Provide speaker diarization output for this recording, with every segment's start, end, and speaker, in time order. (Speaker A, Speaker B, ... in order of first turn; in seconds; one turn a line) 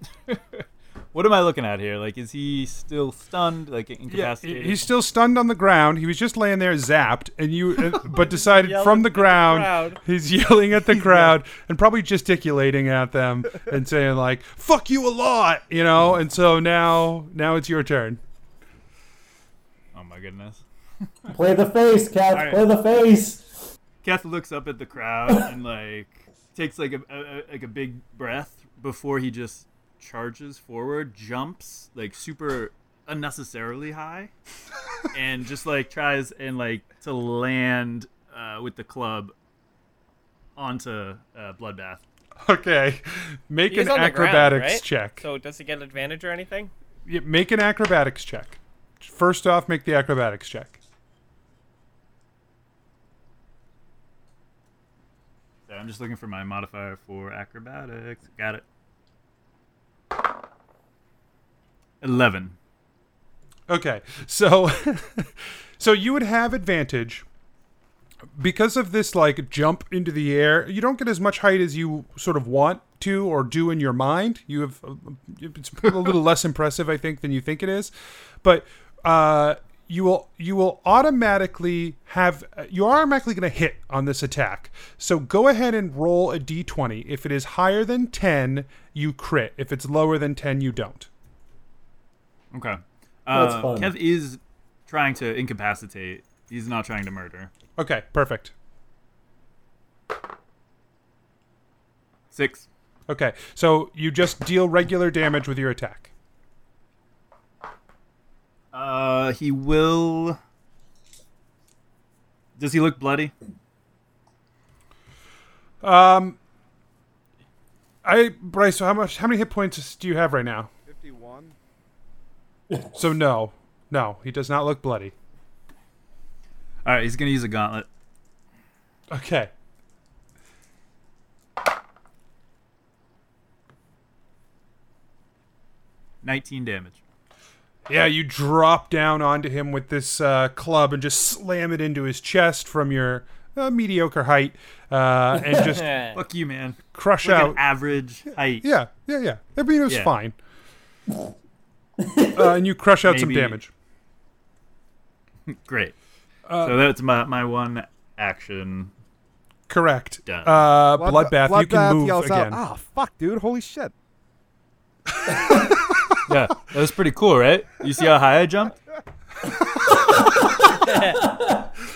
Speaker A: 0.3-4.9
Speaker B: 4.1-18.2
Speaker C: 8.2-10.0
Speaker A: 19.9-20.6
Speaker D: 21.3-23.6
Speaker A: 22.3-22.6
Speaker A: 24.0-34.3
Speaker A: 35.1-39.3
Speaker A: 40.6-42.0
Speaker B: 42.4-45.2
Speaker C: 43.7-46.7
Speaker B: 47.1-50.8
Speaker A: 55.7-58.6
Speaker A: 62.0-62.5
Speaker B: 63.7-67.2
Speaker B: 68.4-77.9
Speaker B: 78.4-91.1
Speaker A: 92.5-97.5
Speaker D: 93.3-93.9
Speaker B: 97.8-98.5
Speaker A: 102.3-102.7
Speaker B: 103.1-106.1
Speaker A: 108.7-110.4
Speaker A: 112.6-113.3
Speaker B: 115.8-116.4
Speaker B: 118.0-120.7
Speaker E: 120.9-121.6
Speaker B: 123.0-125.1
Speaker A: 126.8-127.9
Speaker B: 129.1-129.5
Speaker A: 136.2-137.0
Speaker B: 137.9-145.9
Speaker C: 145.7-146.2
Speaker A: 146.1-148.7
Speaker B: 146.9-147.6
Speaker B: 148.6-150.4
Speaker D: 152.0-152.5
Speaker B: 152.3-153.7
Speaker A: 153.0-153.6
Speaker A: 155.5-155.9
Speaker B: 156.5-156.8
Speaker A: 156.6-158.9
Speaker B: 159.7-162.6
Speaker A: 160.3-160.7
Speaker E: 161.0-163.9
Speaker A: 166.3-168.8
Speaker C: 170.8-171.2